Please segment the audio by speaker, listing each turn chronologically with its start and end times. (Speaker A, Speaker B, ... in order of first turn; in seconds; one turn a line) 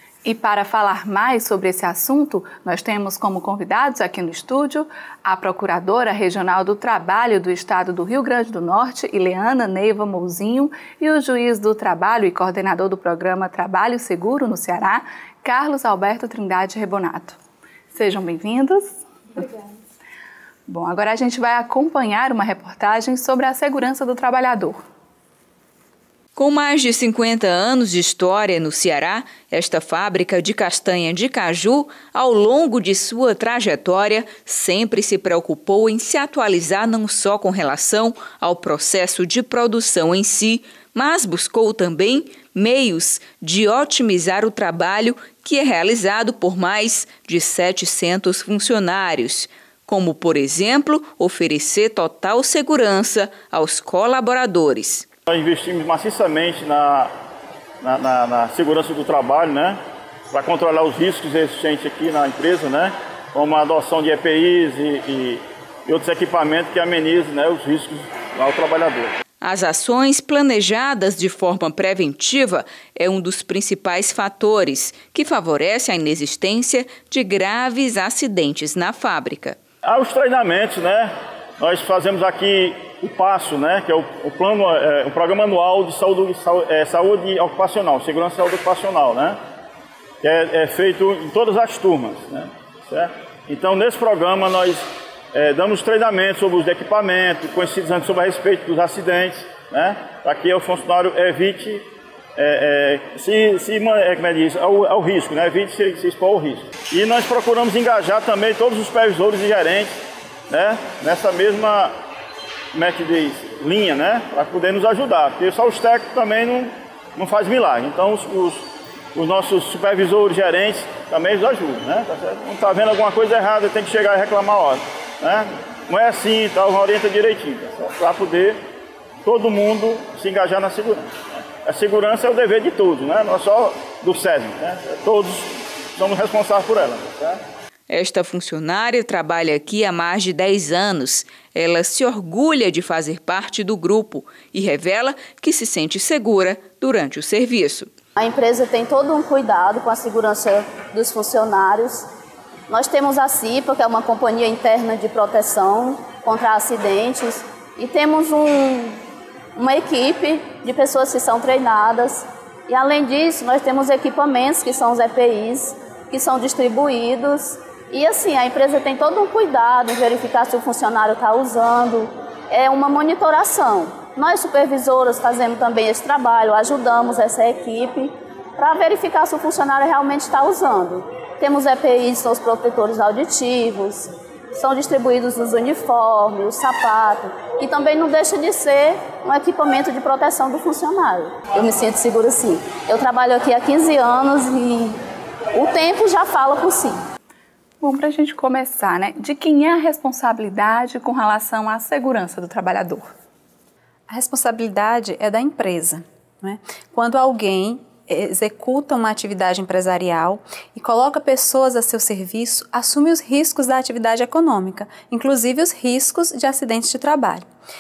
Speaker A: 0.2-17.4
Speaker A: 17.9-19.6
Speaker A: 20.7-24.8
Speaker B: 26.4-55.1
Speaker C: 55.3-57.1
Speaker C: 57.8-59.8
Speaker C: 60.3-69.2
Speaker B: 69.4-79.6
Speaker C: 79.8-89.4
Speaker C: 90.2-110.0
Speaker C: 110.5-111.9
Speaker C: 112.7-128.6
Speaker C: 129.2-137.4
Speaker B: 137.9-147.9
Speaker D: 148.2-152.1
Speaker D: 152.7-159.0
Speaker D: 159.6-195.0
Speaker D: 195.5-197.0
Speaker A: 197.8-203.1
Speaker E: 204.1-217.4